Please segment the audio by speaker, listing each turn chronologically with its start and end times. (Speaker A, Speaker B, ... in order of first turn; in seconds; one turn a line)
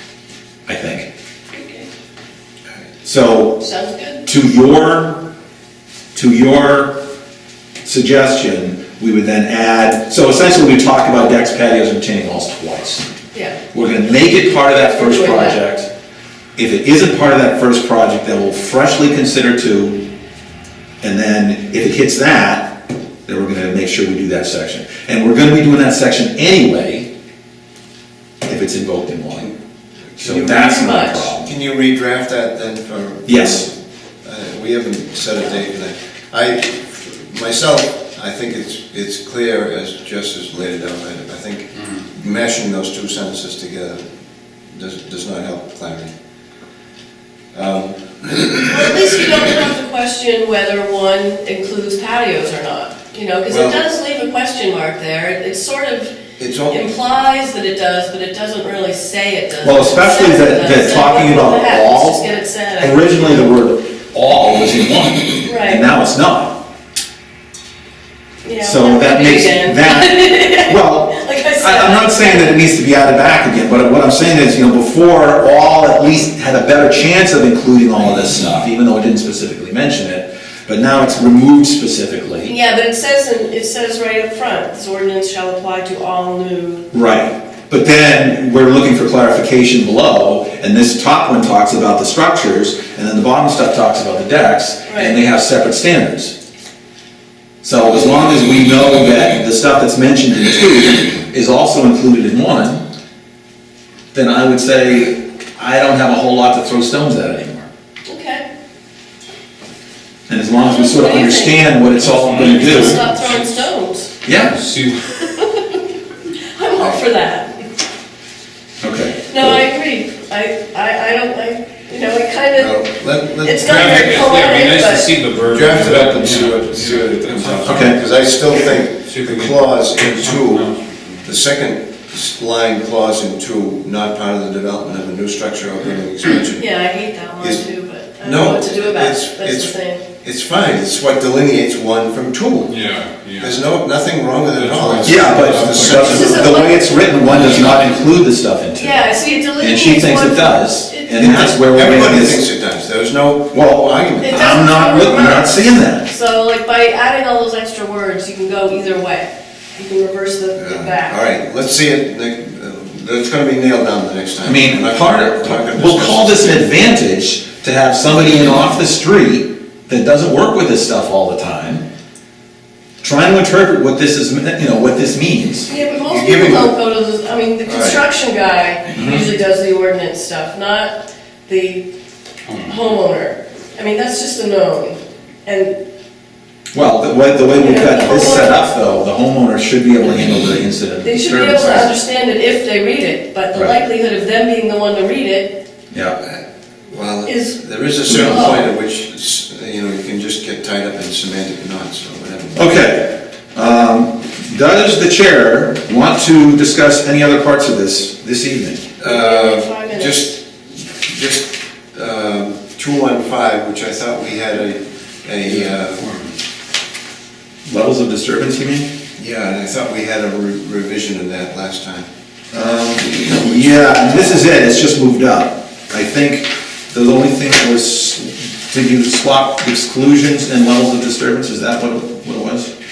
Speaker A: 0.7-1.1
Speaker B: 1.5-1.9
Speaker A: 3.0-3.6
Speaker B: 3.6-4.3
Speaker A: 4.2-5.3
Speaker A: 6.1-7.0
Speaker A: 7.8-13.1
Speaker B: 13.3-13.6
Speaker A: 13.7-15.9
Speaker B: 14.8-15.6
Speaker A: 16.6-20.1
Speaker A: 21.0-27.1
Speaker A: 28.4-29.5
Speaker C: 30.2-30.6
Speaker A: 30.2-31.5
Speaker B: 30.5-31.3
Speaker C: 31.4-44.0
Speaker A: 33.3-33.7
Speaker C: 44.7-46.1
Speaker C: 47.5-48.6
Speaker B: 48.6-56.2
Speaker C: 53.5-53.8
Speaker C: 56.4-56.8
Speaker B: 56.7-63.4
Speaker A: 59.6-62.2
Speaker A: 62.8-66.6
Speaker B: 65.4-65.8
Speaker B: 68.4-72.5
Speaker A: 68.6-82.5
Speaker B: 82.4-86.9
Speaker A: 86.9-96.3
Speaker B: 94.9-95.1
Speaker A: 97.6-102.8
Speaker A: 104.1-107.7
Speaker B: 108.1-108.5
Speaker A: 110.3-113.0
Speaker B: 110.6-111.8
Speaker D: 112.0-113.7
Speaker B: 112.5-114.2
Speaker A: 114.2-114.6
Speaker D: 114.3-115.2
Speaker B: 115.2-115.8
Speaker B: 116.6-117.6
Speaker A: 118.8-119.6
Speaker B: 119.3-122.8
Speaker C: 122.6-123.7
Speaker B: 123.4-125.1
Speaker D: 123.6-128.0
Speaker C: 125.5-130.7
Speaker A: 127.7-128.0
Speaker D: 129.0-131.3
Speaker C: 131.2-136.7
Speaker B: 136.6-140.0
Speaker C: 138.2-142.7
Speaker D: 142.7-143.6
Speaker C: 143.4-146.5
Speaker D: 144.6-146.1
Speaker A: 145.0-152.4
Speaker B: 146.1-146.8
Speaker B: 148.8-151.2
Speaker C: 151.1-154.5
Speaker A: 153.5-156.1
Speaker B: 154.2-161.2
Speaker C: 160.6-166.5
Speaker A: 164.4-171.9
Speaker A: 173.0-175.7
Speaker B: 175.7-181.9
Speaker C: 176.1-176.8
Speaker C: 177.6-178.0
Speaker D: 182.4-182.8
Speaker B: 182.7-185.7
Speaker A: 186.7-191.9
Speaker B: 187.6-188.6
Speaker B: 191.0-195.6
Speaker C: 196.2-202.7
Speaker B: 197.3-198.7
Speaker A: 198.1-198.6
Speaker A: 202.6-208.9
Speaker C: 209.0-210.4
Speaker B: 209.0-210.2
Speaker C: 211.0-216.1
Speaker D: 215.4-216.3
Speaker A: 217.7-218.9
Speaker C: 219.2-222.1
Speaker A: 222.5-232.7